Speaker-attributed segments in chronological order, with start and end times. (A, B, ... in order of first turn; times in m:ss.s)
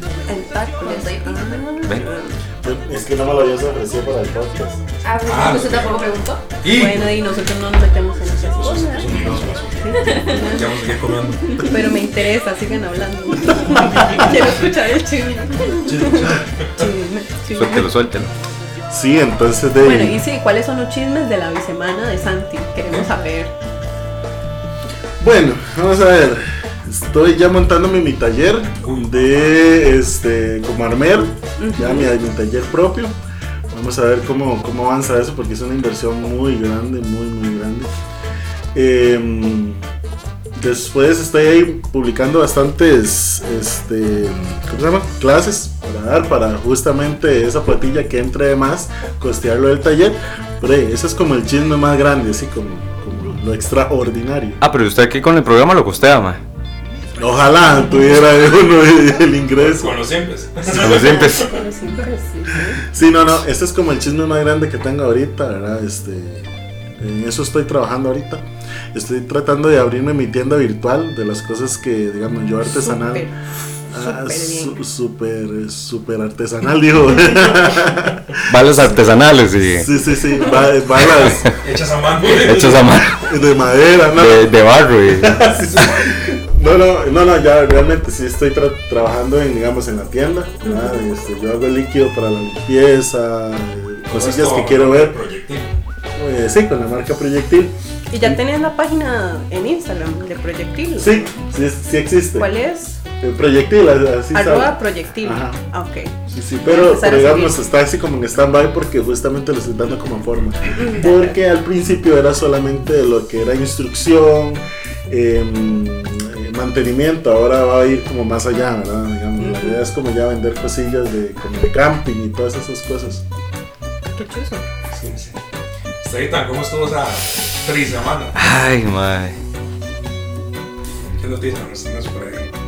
0:00.3-0:02.4 A
0:00.8-0:01.8 B
0:02.6-0:04.8 C
0:05.0-0:06.5 B
0:05.3-0:06.0 D
0:06.6-0:07.2 D
0:06.7-0:09.1 A
0:08.3-0:11.7 D
0:09.8-0:10.7 A
0:10.0-0:10.5 B
0:11.5-0:17.9 A
0:13.5-0:14.5 D
0:15.8-0:16.9 D
0:17.5-0:18.3 E
0:18.9-0:20.2 C
0:19.8-0:23.5 A
0:25.2-0:33.1 C
0:28.8-0:29.2 D
0:31.6-0:32.1 A
0:33.7-0:37.9 C
0:38.7-0:39.8 C
0:40.6-0:54.6 C
0:54.6-0:56.4 E
0:57.2-1:00.0 C
0:59.6-1:01.6 D
1:00.8-1:01.6 E
1:00.8-1:02.8 A
1:02.9-1:06.5 C
1:07.0-1:13.3 C
1:12.6-1:13.3 A
1:13.9-1:14.8 A
1:13.9-1:19.0 C
1:18.4-1:19.9 E
1:19.7-1:21.5 C
1:21.2-1:22.9 D
1:21.2-1:21.5 E
1:22.2-1:24.5 C
1:22.3-1:23.2 E
1:24.1-1:25.4 E
1:25.1-1:35.2 C
1:25.6-1:26.1 D
1:30.6-1:31.0 A
1:34.1-1:35.7 D
1:36.2-1:37.8 C
1:38.1-1:41.3 A
1:41.0-1:42.5 C
1:42.4-1:43.0 A
1:43.2-1:45.6 C
1:44.3-1:47.6 A
1:46.3-2:03.2 C
1:50.7-1:51.3 A
1:59.4-1:59.8 A
2:04.2-2:04.6 A
2:04.9-2:05.4 D
2:06.0-2:08.4 D
2:08.4-2:09.4 E
2:11.2-2:12.5 D